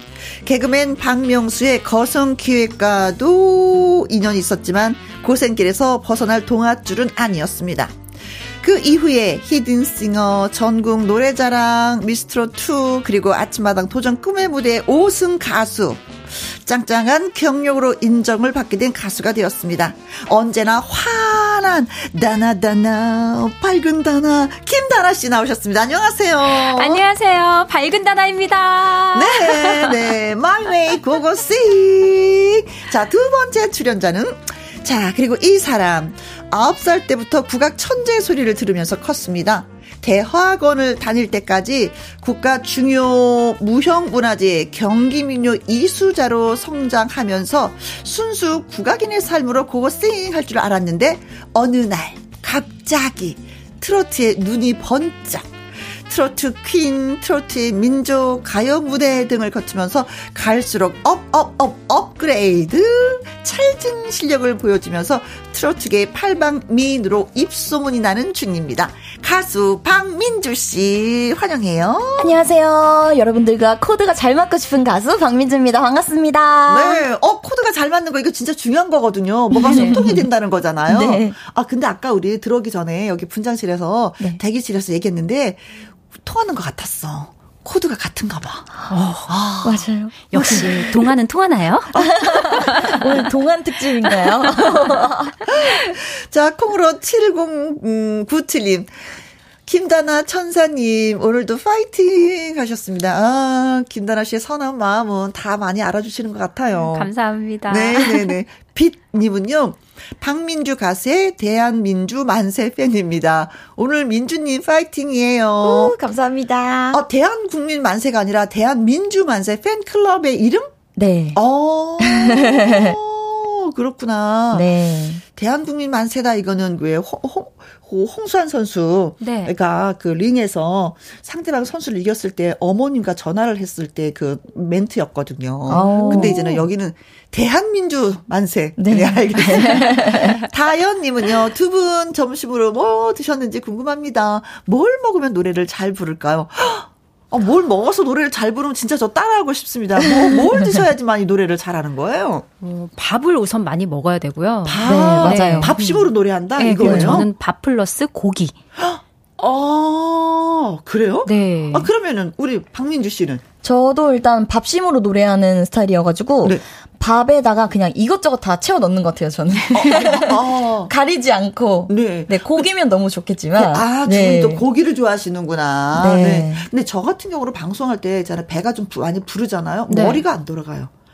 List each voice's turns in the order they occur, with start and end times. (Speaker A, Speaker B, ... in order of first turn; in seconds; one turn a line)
Speaker A: 0.4-7.9
Speaker A: 8.6-27.1
Speaker B: 26.4-30.0
Speaker A: 29.1-55.5
Speaker A: 56.1-72.4
Speaker C: 72.2-77.0
Speaker A: 76.7-85.6
Speaker C: 79.5-80.2
Speaker C: 80.9-81.4
Speaker A: 86.2-88.7
Speaker B: 88.9-89.3
Speaker A: 89.3-91.1
Speaker C: 89.6-90.7
Speaker B: 90.3-92.0
Speaker A: 92.0-93.0
Speaker C: 92.0-95.4
Speaker A: 94.4-99.1
Speaker A: 99.7-107.1
Speaker B: 106.8-108.3
Speaker A: 107.7-116.0
Speaker C: 115.6-117.0
Speaker A: 116.9-120.8
Speaker C: 121.0-121.4
Speaker A: 121.3-124.7
Speaker C: 122.0-123.0
Speaker C: 124.5-125.2
Speaker A: 125.3-152.5
Speaker B: 129.2-129.5
Speaker C: 135.7-136.7
Speaker C: 138.8-140.4
Speaker B: 152.6-155.8
Speaker A: 154.7-157.3
Speaker C: 154.8-155.9
Speaker B: 156.6-158.6
Speaker C: 156.8-157.3
Speaker A: 158.8-163.4
Speaker B: 161.3-161.9
Speaker C: 163.6-174.6
Speaker A: 169.7-170.9
Speaker A: 171.9-172.7
Speaker A: 173.6-180.9
Speaker C: 175.9-176.7
Speaker B: 179.9-180.2